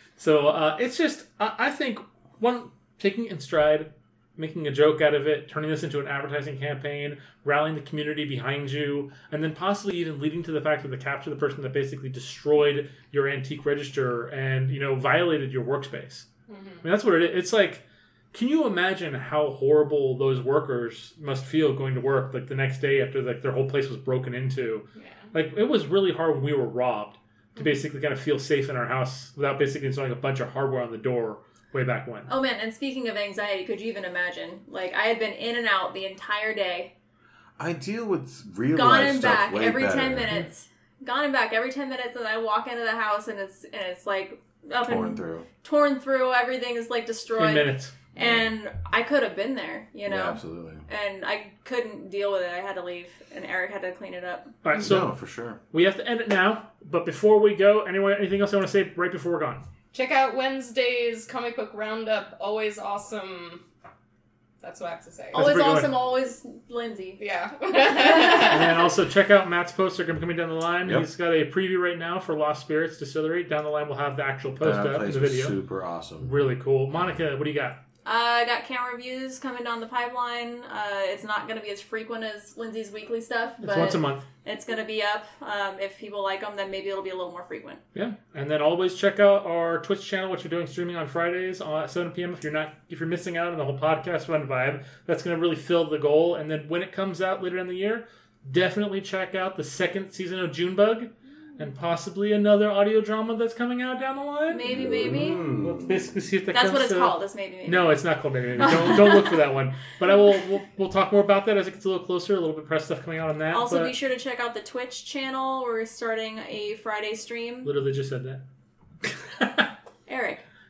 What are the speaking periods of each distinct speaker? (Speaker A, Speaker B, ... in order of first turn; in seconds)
Speaker A: 0.2-16.3, 16.8-32.3, 47.3-48.0, 54.6-55.1, 55.7-59.6, 65.3-65.9, 68.3-75.6, 76.2-77.8, 83.6-84.3, 88.0-113.9, 117.6-118.4, 119.4-119.7
Speaker B: 16.5-16.9, 25.0-25.3, 59.9-63.6, 64.6-65.4, 67.2-68.8
Speaker C: 32.3-36.9, 38.7-54.5, 65.3-67.2, 67.8-68.6, 78.0-87.8, 104.5-105.5, 106.5-107.9, 108.7-109.4, 113.5-117.7, 120.1-120.4
Speaker D: 37.6-40.5, 44.8-45.5, 48.2-48.5, 50.1-50.9, 54.8-55.6, 74.6-76.3, 104.7-106.1